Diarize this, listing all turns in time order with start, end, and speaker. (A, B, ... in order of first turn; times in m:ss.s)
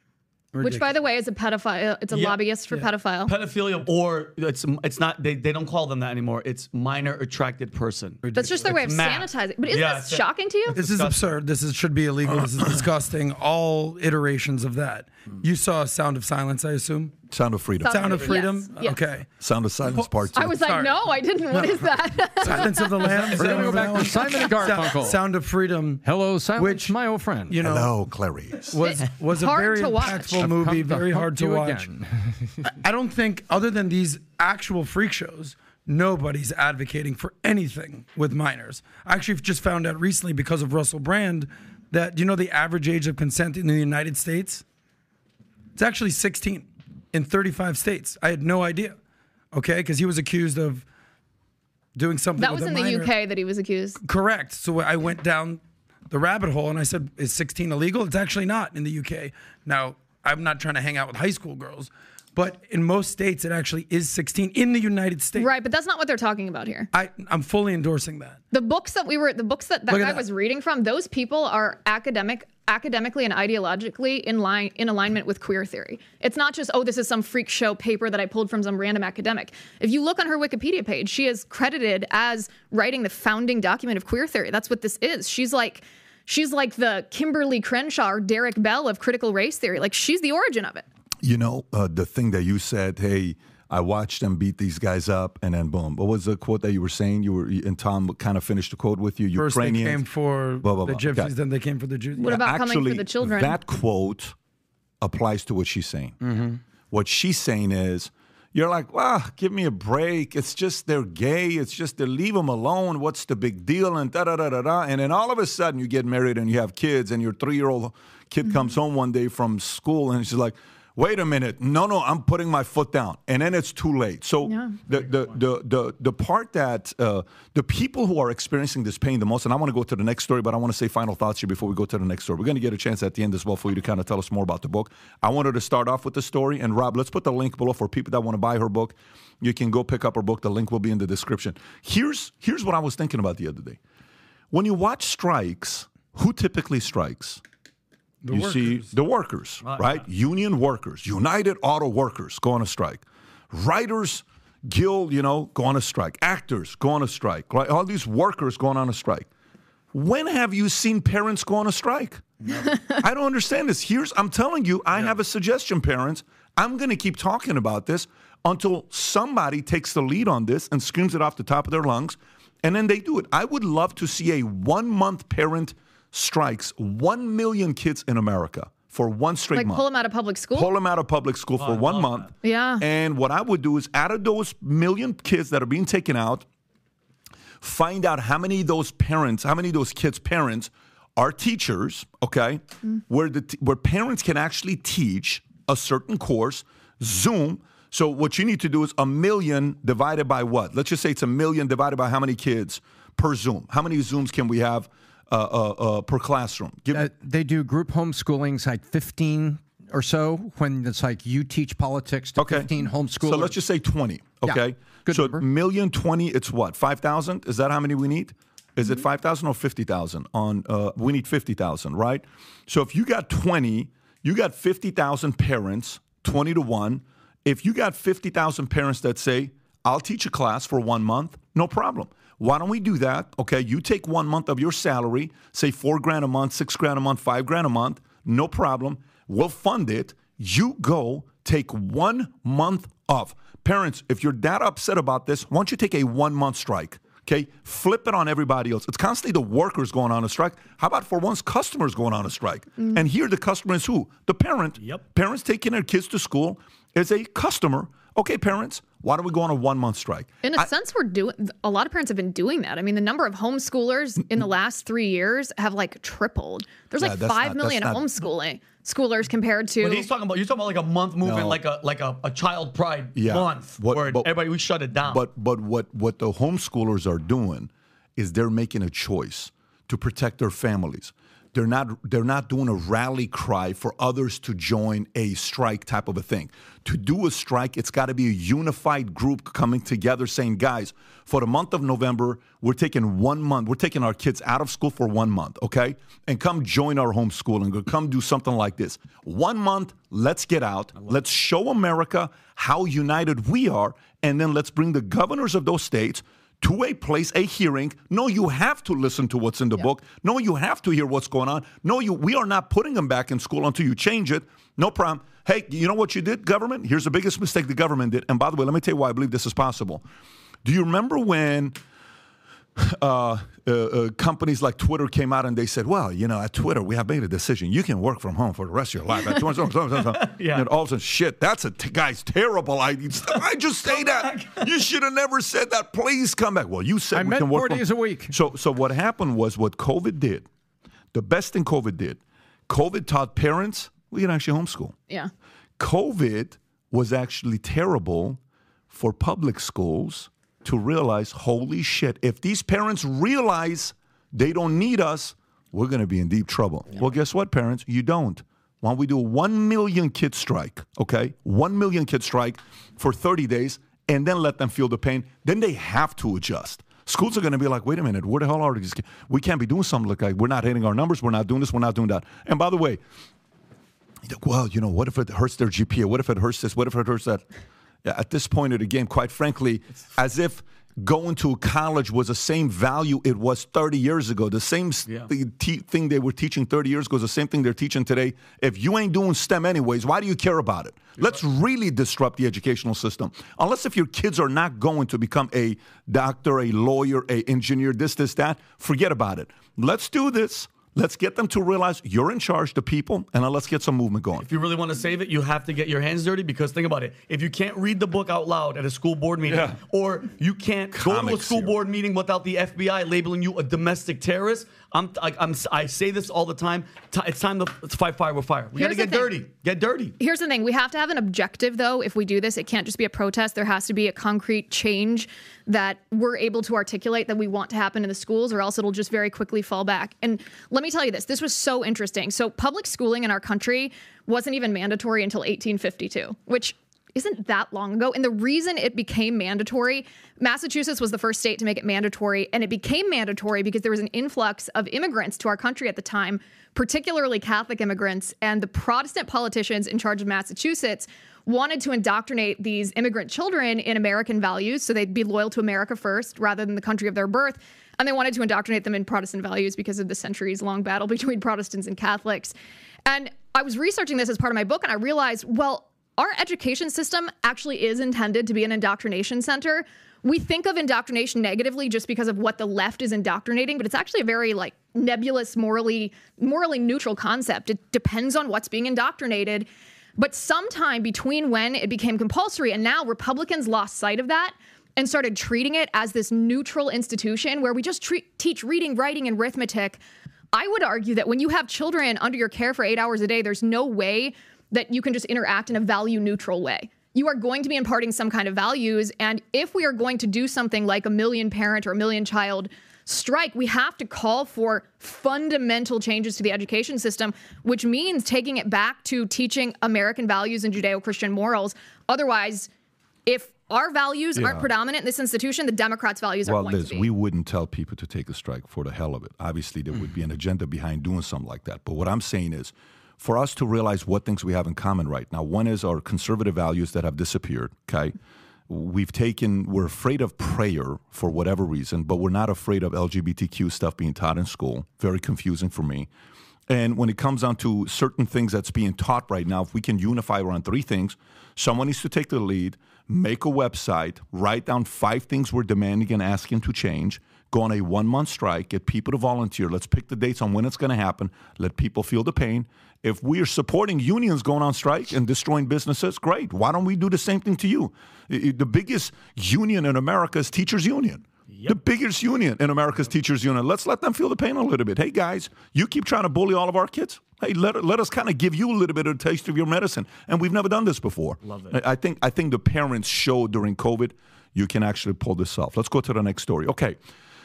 0:00.5-0:00.9 A
0:00.6-0:03.3 B
0:02.1-0:02.4 C
0:03.3-0:10.2 C
0:08.2-0:08.9 A
0:08.4-0:10.8 B
0:10.7-0:17.2 A
0:10.8-0:11.2 C
0:17.3-0:18.2 D
0:17.8-0:19.0 B
0:17.9-0:19.3 A
0:19.4-0:20.6 D
0:20.3-0:23.0 B
0:20.6-0:21.0 A
0:21.5-0:27.0 A
0:23.0-0:25.2 E
0:23.2-0:24.2 C
0:26.0-0:27.6 E
0:27.5-0:28.0 A
0:27.6-0:28.8 D
0:28.7-0:31.9 A
0:28.9-0:30.5 B
0:30.4-0:32.7 E
0:32.7-0:44.6 A
0:45.8-0:49.0 A
0:49.5-0:50.8 A
0:52.0-0:53.1 A
0:52.4-0:54.0 B
0:54.0-1:05.5 A
1:05.3-1:06.9 B
1:06.9-1:08.4 A
1:08.5-1:30.8 B
1:09.9-1:10.2 A
1:31.2-1:40.0 D
1:39.3-1:42.3 A
1:40.6-1:41.3 D
1:42.2-1:43.6 B
1:42.2-1:44.3 D
1:45.0-1:46.2 D
1:46.2-1:46.6 A
1:46.9-2:23.8 D
2:04.4-2:04.8 B
2:24.5-2:27.4 D
2:28.2-2:28.9 A
2:28.3-2:39.3 D
2:29.6-2:30.0 C
2:39.9-2:59.8 D
2:59.5-3:00.7 B
3:00.5-3:06.4 D
3:01.6-3:02.3 C
3:02.4-3:02.8 B
3:07.6-3:27.1 D
3:26.9-3:33.6 E
3:32.4-4:20.7 D
3:34.4-3:35.4 E
4:20.4-4:30.1 B
4:27.0-4:28.1 D
4:29.8-4:35.2 C
4:31.2-4:31.6 D
4:33.1-4:34.3 D
4:35.0-5:20.0 D
5:20.6-5:21.8 D
5:22.8-5:40.5 D
5:30.2-5:30.6 C
5:33.8-5:34.6 C
5:37.1-5:38.3 E
5:41.1-5:45.0 D
5:45.8-6:13.0 D
6:14.2-6:17.4 D
6:18.0-6:44.5 D
6:44.4-7:00.1 C
6:49.5-6:49.8 D
6:50.9-6:51.7 D
6:58.8-6:59.3 B
7:00.2-7:42.5 B
7:43.0-8:10.0 B
8:10.5-8:32.7 B
8:33.2-8:37.1 B
8:34.4-8:34.7 D
8:36.4-8:48.2 D
8:48.7-8:56.1 D
8:56.7-9:37.0 D
9:31.4-9:31.8 C